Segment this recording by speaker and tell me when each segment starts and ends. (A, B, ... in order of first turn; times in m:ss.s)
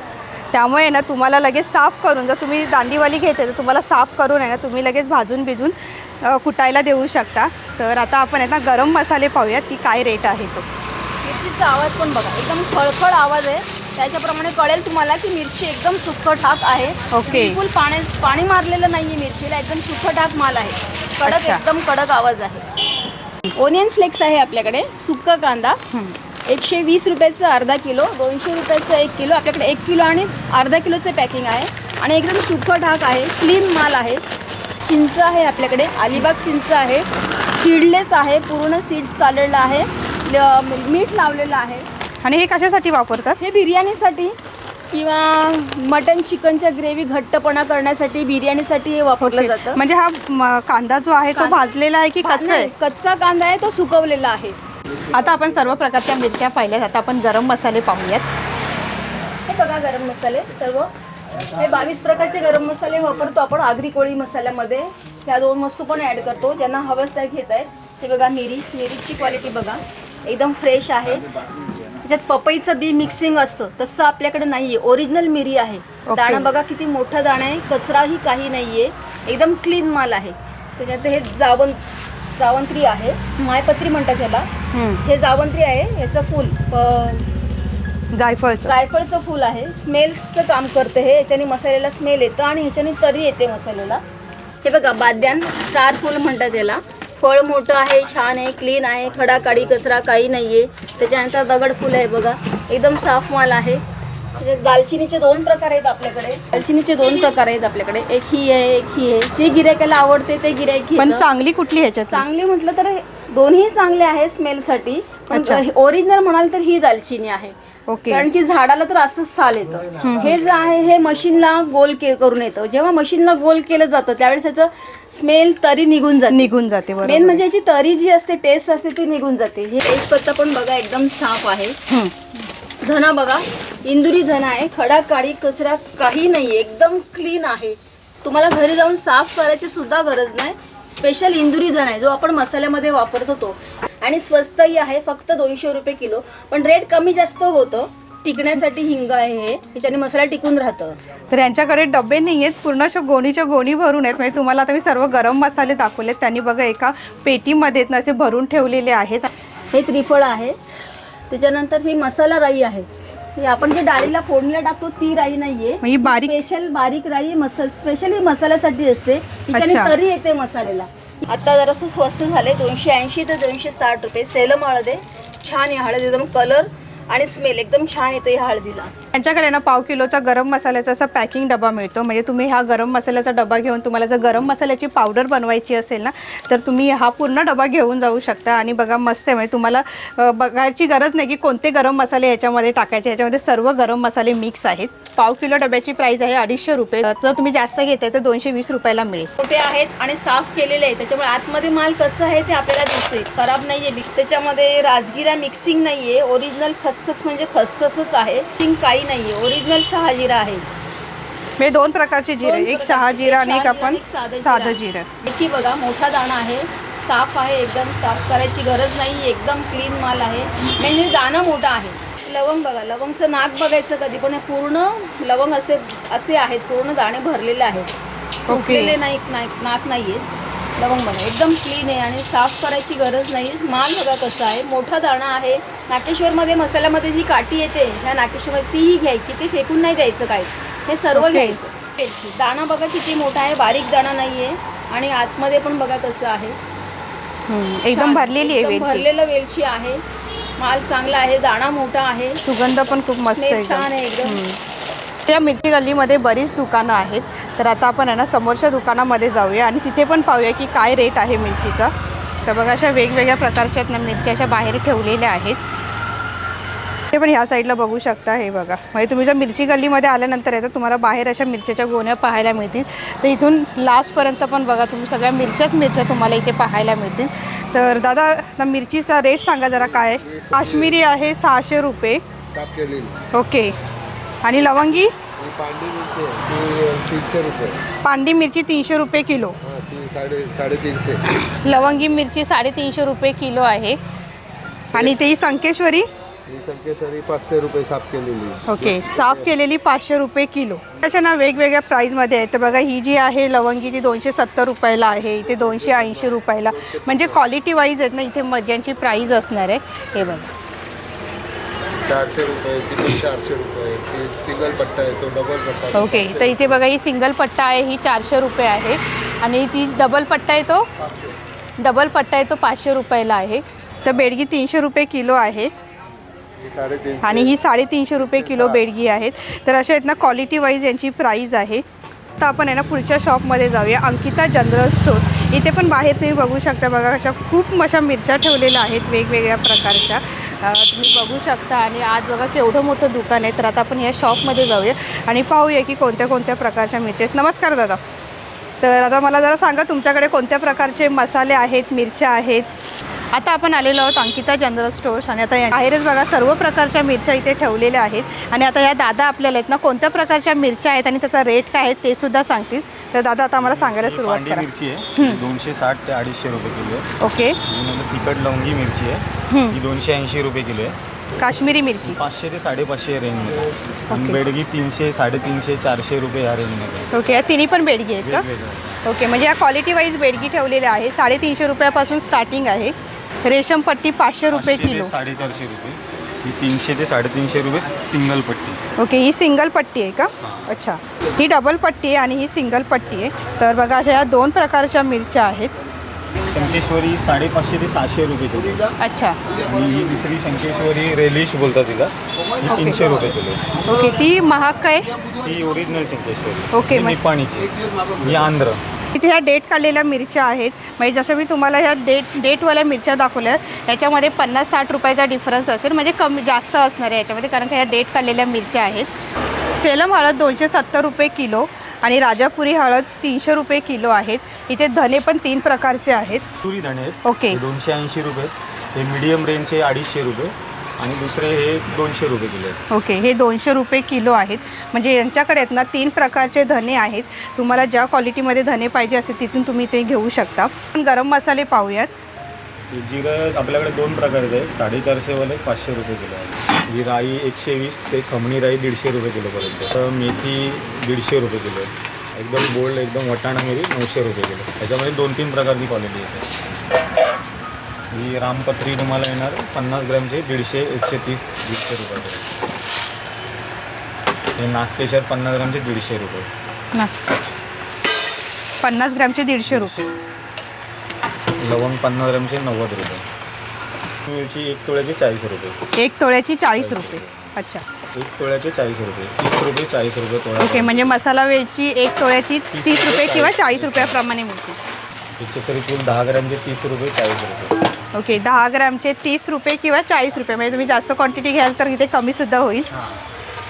0:00.5-0:10.7 A
0:11.2-0:22.6 B
0:17.1-0:17.6 A
0:21.2-0:21.6 A
0:23.5-0:25.8 B
0:26.5-0:34.2 B
0:34.8-0:41.9 B
0:42.2-0:43.4 A
0:43.4-0:44.3 B
0:44.9-0:49.8 B
0:49.2-0:52.7 A
0:51.3-0:54.6 B
0:55.1-0:58.2 A
0:59.5-1:00.9 B
1:01.5-1:11.3 B
1:12.0-1:21.8 B
1:16.0-1:16.5 A
1:22.4-1:24.5 B
1:24.7-1:25.0 A
1:25.0-1:27.2 B
1:28.1-1:28.7 A
1:28.6-1:34.0 B
1:34.6-1:43.8 B
1:44.4-1:51.3 B
1:51.0-1:52.2 A
1:52.1-1:57.5 B
1:55.3-1:55.6 A
1:57.9-1:58.3 A
1:58.1-2:11.8 B
2:00.0-2:00.3 A
2:06.3-2:07.4 A
2:11.9-2:12.2 A
2:12.8-2:31.0 B
2:31.3-2:39.3 A
2:39.7-2:40.5 B
2:41.3-2:58.9 B
2:45.8-2:46.3 A
2:49.5-2:49.9 A
2:59.1-3:19.3 A
3:19.4-3:30.6 B
3:31.6-3:35.1 A
3:32.4-3:47.9 B
3:48.5-3:49.0 A
3:48.5-3:50.2 B
3:50.8-4:06.6 B
4:01.1-4:01.6 A
4:07.5-4:09.0 A
4:07.9-4:10.0 B
4:10.6-4:12.4 B
4:12.4-4:14.6 A
4:13.4-4:14.4 B
4:15.2-4:21.9 A
4:22.4-4:25.6 A
4:27.1-4:42.2 A
4:39.9-4:41.0 C
4:42.5-4:43.3 C
4:43.3-4:43.7 A
4:44.4-4:45.1 A
4:45.4-4:47.8 C
4:48.0-4:49.6 A
4:49.6-4:51.2 C
4:51.3-4:54.0 A
4:54.9-4:56.0 A
4:56.5-4:59.5 C
4:58.6-5:10.5 A
5:05.5-5:07.4 C
5:12.0-5:16.8 C
5:15.9-5:20.9 A
5:21.0-5:21.4 C
5:21.8-5:25.7 A
5:26.6-5:27.5 C
5:27.2-5:31.8 A
5:28.1-5:28.8 C
5:32.4-5:48.0 A
5:48.8-5:52.6 A
5:53.3-6:05.4 A
6:03.6-6:07.1 D
6:07.2-6:07.6 A
6:07.6-6:11.0 D
6:09.5-6:09.8 A
6:11.4-6:12.2 A
6:12.0-6:17.1 D
6:14.1-6:14.4 A
6:17.1-6:18.5 A
6:18.2-6:19.0 D
6:19.0-6:25.1 A
6:24.5-6:28.8 D
6:29.0-6:35.7 A
6:30.4-6:30.7 D
6:36.4-6:38.9 D
6:39.0-6:39.4 A
6:39.5-6:43.6 D
6:43.9-6:45.1 A
6:45.4-6:48.8 D
6:46.7-6:47.2 A
6:49.1-6:59.1 A
6:59.7-7:06.4 A
7:06.6-7:12.8 D
7:07.2-7:07.6 A
7:12.9-7:22.1 A
7:22.9-7:36.5 D
7:38.1-7:42.5 D
7:44.6-7:46.5 D
7:48.8-7:50.0 A
7:49.6-7:50.1 D
7:51.6-7:53.2 D
7:54.2-7:55.8 D
7:56.0-7:57.8 A
7:56.8-7:57.5 D
7:58.1-8:01.1 D
8:00.6-8:04.8 A
8:02.7-8:04.2 D
8:05.4-8:07.8 D
8:08.1-8:12.9 A
8:12.9-8:13.2 D